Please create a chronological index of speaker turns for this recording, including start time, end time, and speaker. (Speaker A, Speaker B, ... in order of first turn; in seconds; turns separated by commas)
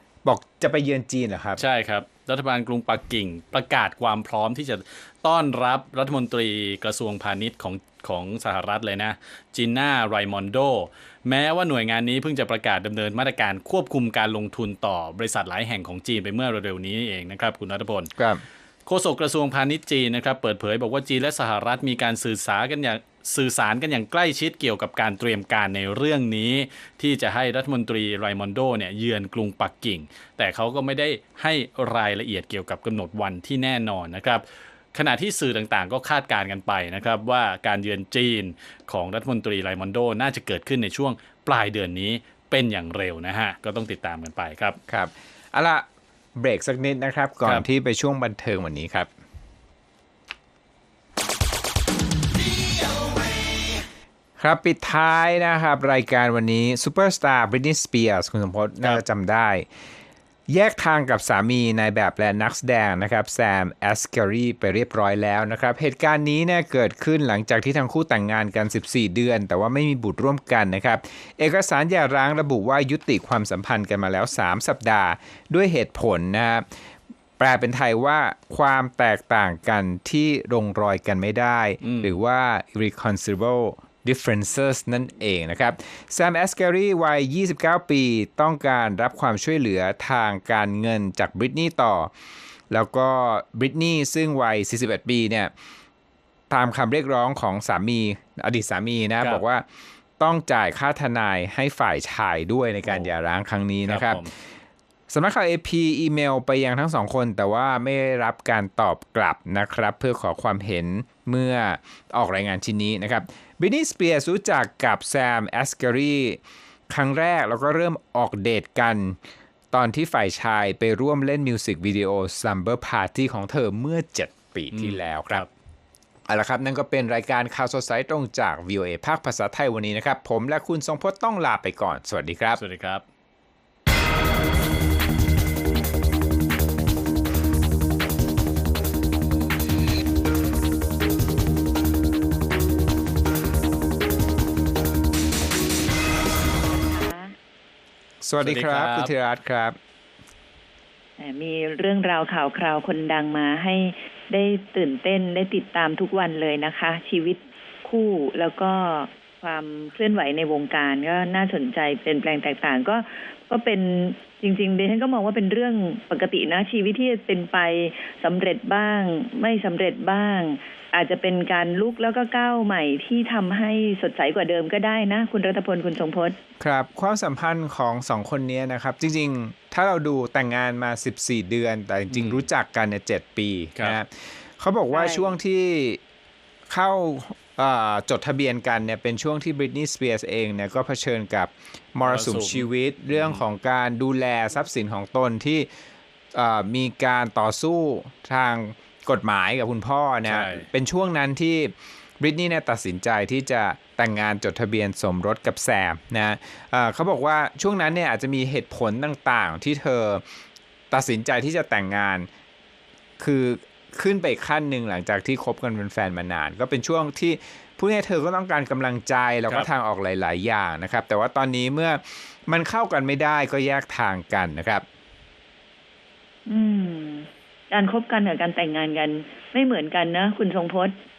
Speaker A: 0.2-1.6, Speaker B: 1.6-18.1, Speaker A: 18.2-18.4, Speaker B: 18.9-44.8, Speaker A: 44.9-45.9, Speaker A: 46.4-49.1, Speaker A: 54.4-59.7, Speaker A: 60.5-76.7, Speaker A: 77.4-92.1, Speaker B: 81.8-82.2, Speaker A: 92.7-95.5, Speaker A: 96.5-99.7, Speaker A: 100.2-104.3, Speaker B: 103.9-104.3, Speaker A: 105.1-119.2, Speaker A: 119.7-125.5, Speaker B: 124.7-125.5, Speaker A: 126.3-132.6, Speaker B: 132.6-133.0, Speaker C: 146.6-147.3, Speaker A: 148.2-149.8, Speaker B: 148.4-149.1, Speaker C: 151.2-176.4, Speaker A: 176.6-186.0, Speaker B: 182.1-182.4, Speaker C: 184.9-185.4, Speaker A: 186.7-195.7, Speaker B: 192.0-193.4, Speaker A: 196.3-210.2, Speaker B: 200.2-200.7, Speaker A: 210.9-212.3, Speaker A: 213.2-224.8, Speaker C: 226.5-231.0